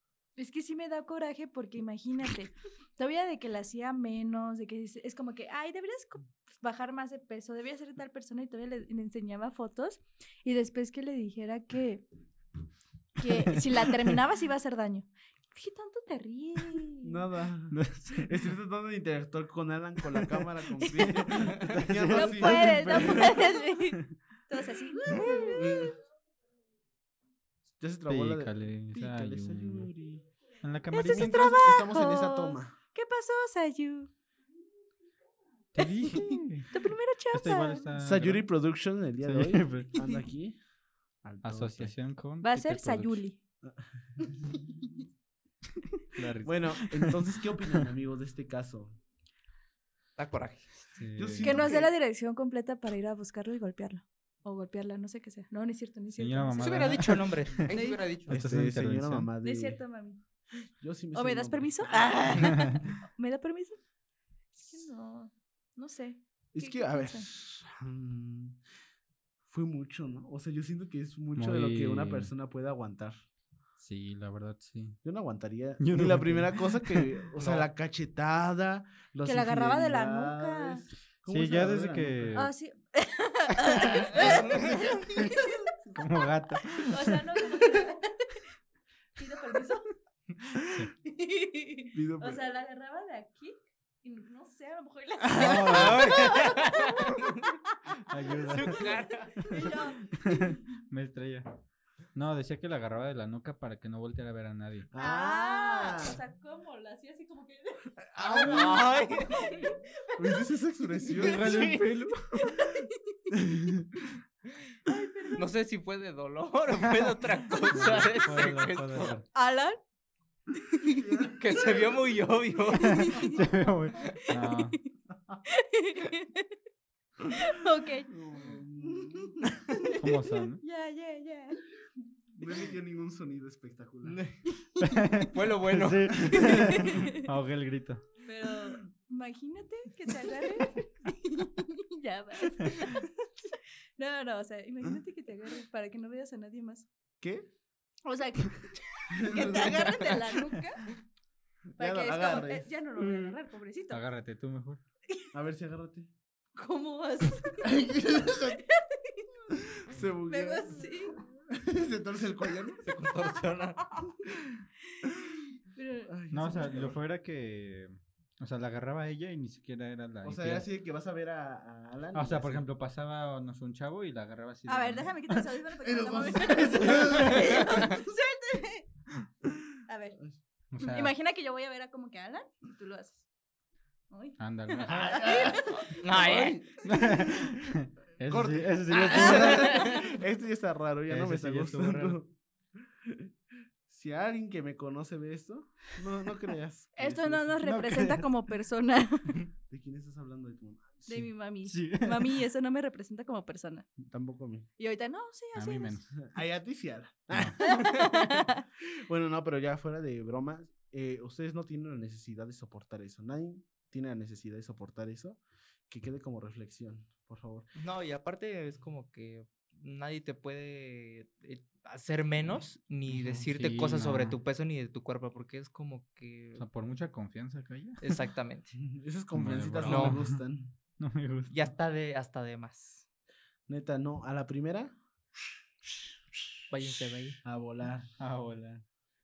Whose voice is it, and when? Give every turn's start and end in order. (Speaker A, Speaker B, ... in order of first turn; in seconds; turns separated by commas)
Speaker A: 0.4-12.1, Speaker A: 13.2-17.2, Speaker B: 13.3-14.1, Speaker C: 17.0-23.4, Speaker B: 17.7-18.3, Speaker B: 20.1-23.9, Speaker A: 20.8-21.4, Speaker A: 22.0-25.9, Speaker C: 25.1-26.0, Speaker C: 27.7-30.3, Speaker B: 28.1-29.9, Speaker B: 30.6-31.5, Speaker A: 30.9-34.1, Speaker C: 31.1-32.8, Speaker B: 35.7-38.5, Speaker A: 35.8-37.9, Speaker C: 38.0-40.6, Speaker B: 39.2-40.0, Speaker C: 41.2-42.0, Speaker B: 41.4-43.2, Speaker A: 42.4-43.4, Speaker C: 43.6-44.6, Speaker B: 46.1-47.7, Speaker C: 46.4-49.0, Speaker D: 50.2-50.7, Speaker B: 50.9-51.7, Speaker C: 51.1-51.9, Speaker A: 51.4-57.0, Speaker B: 56.2-57.8, Speaker D: 56.6-58.4, Speaker A: 57.7-58.0, Speaker B: 58.3-59.3, Speaker C: 58.3-59.8, Speaker A: 59.4-60.2, Speaker C: 60.8-62.1, Speaker A: 61.1-63.8, Speaker A: 64.5-67.3, Speaker C: 66.5-68.6, Speaker C: 69.5-73.2, Speaker B: 71.4-72.3, Speaker B: 73.8-75.0, Speaker C: 75.0-82.4, Speaker B: 75.8-77.1, Speaker D: 77.4-77.7, Speaker A: 79.2-80.8, Speaker B: 81.3-82.5, Speaker A: 82.3-85.6, Speaker B: 83.6-87.2, Speaker C: 84.0-85.1, Speaker D: 84.2-84.6, Speaker A: 86.7-88.4, Speaker A: 89.2-89.9, Speaker B: 90.7-90.9, Speaker A: 91.0-100.6, Speaker C: 91.9-92.4, Speaker C: 95.3-96.1, Speaker B: 95.4-96.9, Speaker D: 95.6-96.9, Speaker B: 98.0-101.5, Speaker D: 98.5-99.3, Speaker B: 102.1-104.9, Speaker C: 104.9-106.2, Speaker A: 105.0-110.5, Speaker C: 108.0-109.0, Speaker D: 108.4-109.5, Speaker C: 110.2-111.8, Speaker B: 111.1-112.6, Speaker D: 111.2-111.9, Speaker A: 112.4-113.2, Speaker C: 113.3-113.9, Speaker A: 114.8-115.4, Speaker D: 115.4-119.1, Speaker B: 117.7-119.2, Speaker A: 119.3-119.8, Speaker A: 120.6-121.0, Speaker C: 120.9-121.7, Speaker D: 121.4-123.1, Speaker A: 122.7-124.8, Speaker B: 122.8-124.8, Speaker A: 125.5-126.5, Speaker A: 127.3-128.1, Speaker C: 128.1-129.7, Speaker A: 128.8-131.6, Speaker B: 129.9-130.6, Speaker C: 132.3-134.2, Speaker D: 134.0-134.4, Speaker B: 134.8-138.1, Speaker D: 135.2-136.7, Speaker A: 136.3-137.3, Speaker A: 138.2-146.9, Speaker C: 147.2-147.5, Speaker A: 148.1-150.9, Speaker C: 149.1-150.3, Speaker C: 151.8-152.7, Speaker A: 151.8-154.0, Speaker B: 153.9-154.8, Speaker C: 155.3-156.1, Speaker A: 156.6-159.3, Speaker C: 157.6-158.6, Speaker C: 159.6-162.9, Speaker A: 160.3-161.2, Speaker D: 162.8-163.8, Speaker C: 164.3-164.6, Speaker A: 165.7-166.1, Speaker C: 166.1-167.0, Speaker B: 166.3-170.7, Speaker C: 170.2-172.6, Speaker B: 172.1-175.4, Speaker A: 174.7-178.9, Speaker C: 175.8-177.9, Speaker B: 176.5-177.6, Speaker A: 179.9-180.2, Speaker B: 180.7-181.1, Speaker A: 180.8-183.3, Speaker A: 184.1-186.0, Speaker B: 184.4-185.5, Speaker C: 184.9-187.3, Speaker D: 185.8-186.6, Speaker B: 186.8-190.1, Speaker C: 188.3-192.3, Speaker B: 191.1-192.2, Speaker C: 193.9-197.4, Speaker A: 197.0-199.4, Speaker B: 197.3-198.3, Speaker C: 199.7-201.3, Speaker A: 201.1-203.9, Speaker B: 201.7-202.4, Speaker C: 204.0-204.7, Speaker A: 204.8-206.0, Speaker B: 205.6-206.2, Speaker C: 206.2-217.7, Speaker B: 207.3-207.6, Speaker A: 207.7-208.6, Speaker D: 217.8-226.6, Speaker B: 223.2-224.4, Speaker B: 226.6-228.2, Speaker D: 228.0-228.8, Speaker C: 228.8-230.7, Speaker B: 229.3-230.4, Speaker D: 229.8-230.2, Speaker B: 231.0-231.7, Speaker D: 231.5-233.0, Speaker C: 233.7-234.9, Speaker D: 236.7-237.4, Speaker C: 237.4-238.1, Speaker B: 238.2-238.8